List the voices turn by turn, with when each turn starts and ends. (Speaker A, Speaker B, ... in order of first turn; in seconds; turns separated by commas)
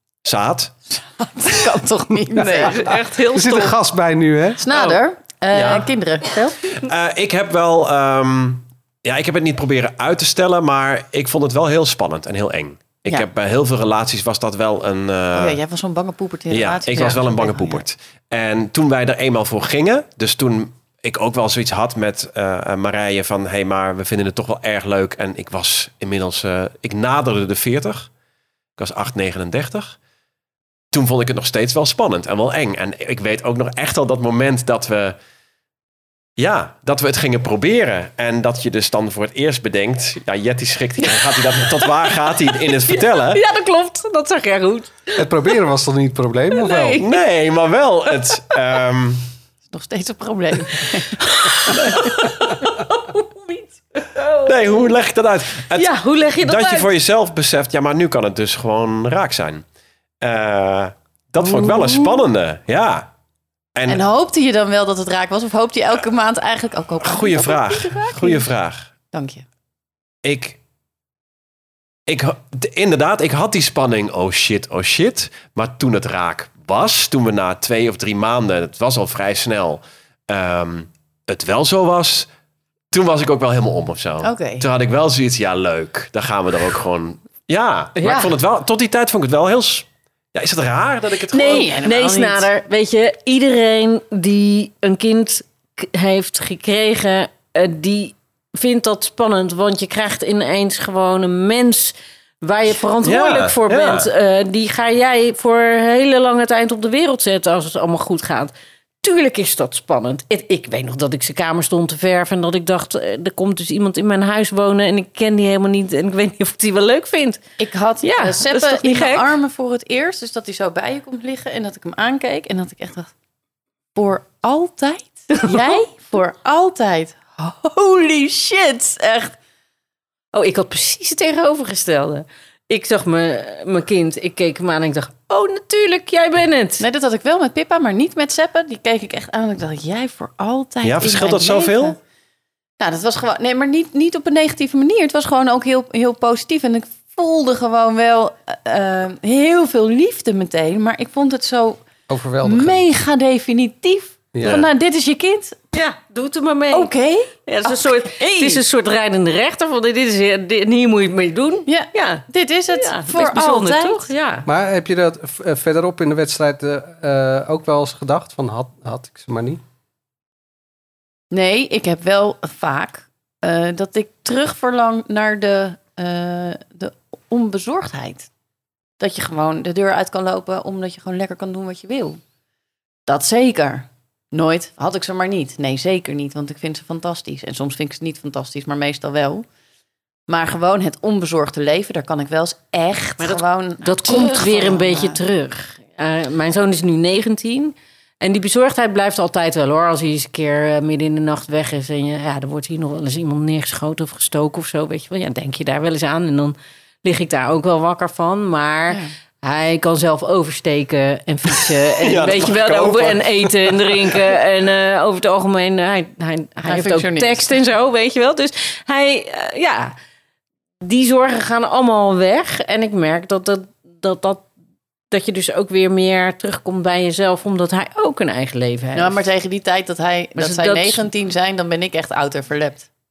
Speaker A: 0.2-0.7, Speaker B: 0.9-2.9, Speaker C: 2.3-4.7, Speaker D: 2.4-3.8, Speaker B: 4.6-6.8, Speaker A: 4.7-5.0, Speaker A: 5.5-5.9, Speaker A: 6.7-15.6, Speaker B: 15.3-17.8, Speaker A: 16.5-28.1, Speaker A: 28.8-30.0, Speaker A: 30.9-35.2, Speaker A: 36.4-43.4, Speaker D: 41.0-41.8, Speaker D: 42.7-45.3, Speaker C: 45.2-47.0, Speaker D: 46.5-47.2, Speaker A: 47.0-49.3, Speaker B: 49.7-52.1, Speaker D: 51.2-54.9, Speaker A: 54.5-59.6, Speaker D: 55.7-56.9, Speaker A: 60.2-63.1, Speaker B: 61.5-61.8, Speaker A: 63.8-64.0, Speaker B: 63.9-68.5, Speaker A: 67.0-68.9, Speaker B: 69.1-69.5, Speaker A: 70.2-70.6, Speaker A: 72.1-82.3, Speaker A: 82.9-91.7, Speaker B: 84.2-84.7, Speaker D: 88.0-88.3, Speaker D: 91.3-117.4, Speaker B: 91.4-92.5, Speaker A: 103.0-104.1, Speaker B: 117.6-123.1, Speaker D: 118.0-119.3, Speaker B: 124.0-129.3, Speaker D: 125.4-125.8, Speaker D: 130.3-136.9, Speaker B: 136.8-142.0, Speaker A: 140.8-142.0, Speaker B: 142.8-151.8, Speaker C: 152.1-152.8, Speaker B: 152.4-155.6, Speaker C: 154.3-154.7, Speaker D: 155.7-156.9, Speaker B: 156.7-158.6, Speaker D: 157.5-164.5, Speaker B: 161.7-164.1, Speaker C: 164.5-169.6, Speaker B: 171.3-178.3, Speaker B: 179.0-182.2, Speaker B: 183.1-189.5, Speaker B: 190.3-195.2, Speaker D: 193.2-219.9, Speaker A: 212.0-214.1, Speaker B: 216.7-217.5, Speaker D: 220.8-224.5, Speaker D: 225.1-229.2, Speaker B: 228.9-232.9, Speaker D: 230.4-231.0